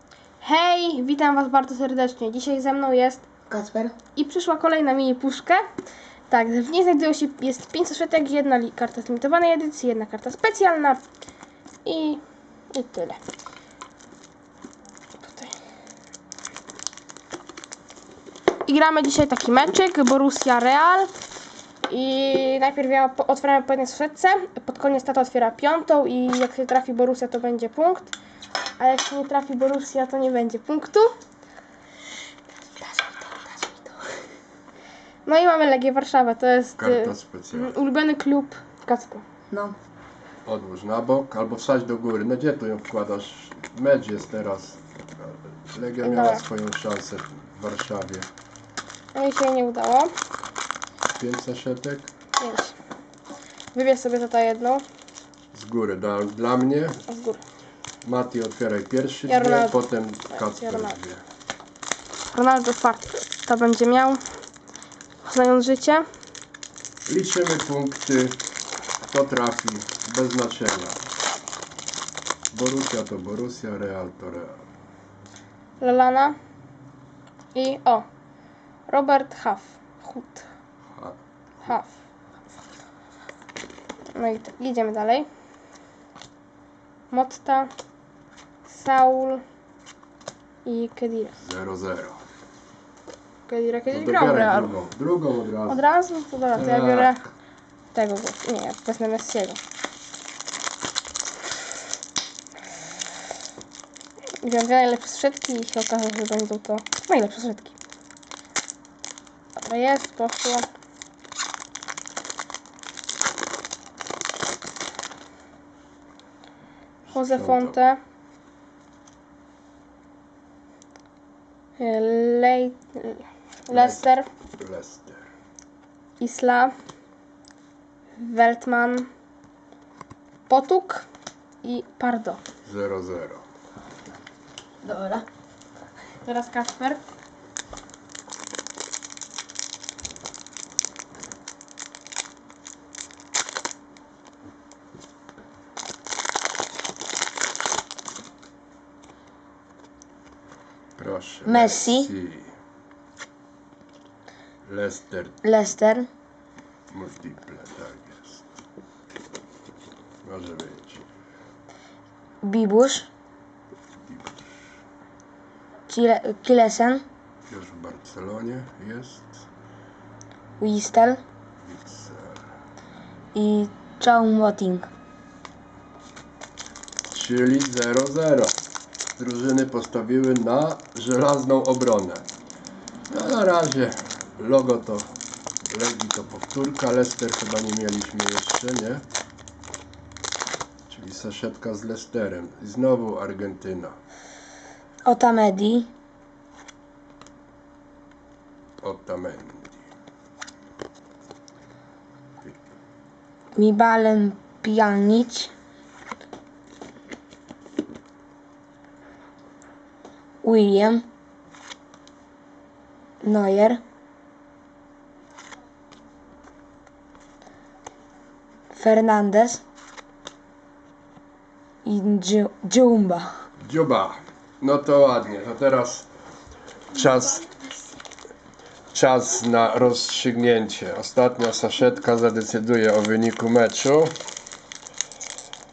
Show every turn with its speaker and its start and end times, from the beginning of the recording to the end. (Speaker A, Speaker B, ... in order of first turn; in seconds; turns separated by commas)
Speaker A: 0.4-3.2, Speaker B: 3.5-4.0, Speaker A: 4.2-5.6, Speaker A: 6.3-11.0, Speaker A: 11.8-12.2, Speaker A: 12.7-13.2, Speaker A: 15.2-15.5, Speaker A: 18.7-21.1, Speaker A: 21.9-28.1, Speaker A: 28.8-31.1, Speaker A: 35.3-39.2, Speaker C: 36.8-37.8, Speaker C: 40.5-48.3, Speaker A: 46.0-46.4, Speaker A: 49.1-50.1, Speaker C: 51.1-52.1, Speaker A: 52.4-52.7, Speaker A: 53.7-54.8, Speaker C: 55.5-57.0, Speaker A: 57.1-57.4, Speaker C: 58.0-61.2, Speaker A: 59.3-61.0, Speaker A: 62.3-64.2, Speaker A: 65.2-66.0, Speaker C: 67.1-68.4, Speaker C: 69.0-71.0, Speaker C: 72.5-74.6, Speaker A: 75.8-76.4, Speaker A: 77.5-78.0, Speaker A: 78.9-80.5, Speaker C: 81.0-81.7, Speaker A: 84.2-85.3, Speaker A: 87.1-87.7, Speaker A: 88.7-89.4, Speaker A: 90.7-91.4, Speaker C: 91.4-92.2, Speaker A: 93.5-94.8, Speaker C: 93.9-95.8, Speaker A: 95.7-97.2, Speaker C: 96.5-97.2, Speaker A: 97.9-99.6, Speaker A: 104.4-107.7, Speaker A: 109.6-110.7, Speaker C: 117.0-117.8, Speaker A: 117.1-118.0, Speaker A: 121.8-124.3, Speaker C: 123.7-125.3, Speaker A: 126.2-126.7, Speaker A: 128.2-129.1, Speaker A: 130.5-131.1, Speaker A: 131.6-132.4, Speaker C: 132.7-133.4, Speaker B: 134.8-135.2, Speaker A: 136.2-137.0, Speaker C: 151.0-152.5, Speaker B: 151.5-152.1, Speaker C: 154.7-155.4, Speaker B: 155.4-156.1, Speaker C: 156.9-158.5, Speaker C: 160.2-161.1, Speaker B: 162.4-163.1, Speaker C: 164.0-164.6, Speaker B: 165.9-167.0, Speaker C: 167.5-169.5, Speaker B: 170.6-171.2, Speaker C: 171.6-172.4, Speaker B: 173.3-174.9, Speaker C: 177.1-178.5, Speaker C: 179.2-182.3, Speaker C: 183.1-185.1, Speaker C: 185.7-189.0, Speaker C: 190.9-194.0, Speaker B: 195.1-195.9, Speaker C: 198.8-199.9, Speaker B: 203.6-205.5, Speaker B: 210.4-211.0, Speaker B: 213.2-213.8, Speaker B: 218.7-219.6, Speaker B: 221.8-223.3, Speaker C: 223.6-226.1, Speaker C: 226.9-227.4, Speaker C: 228.9-234.1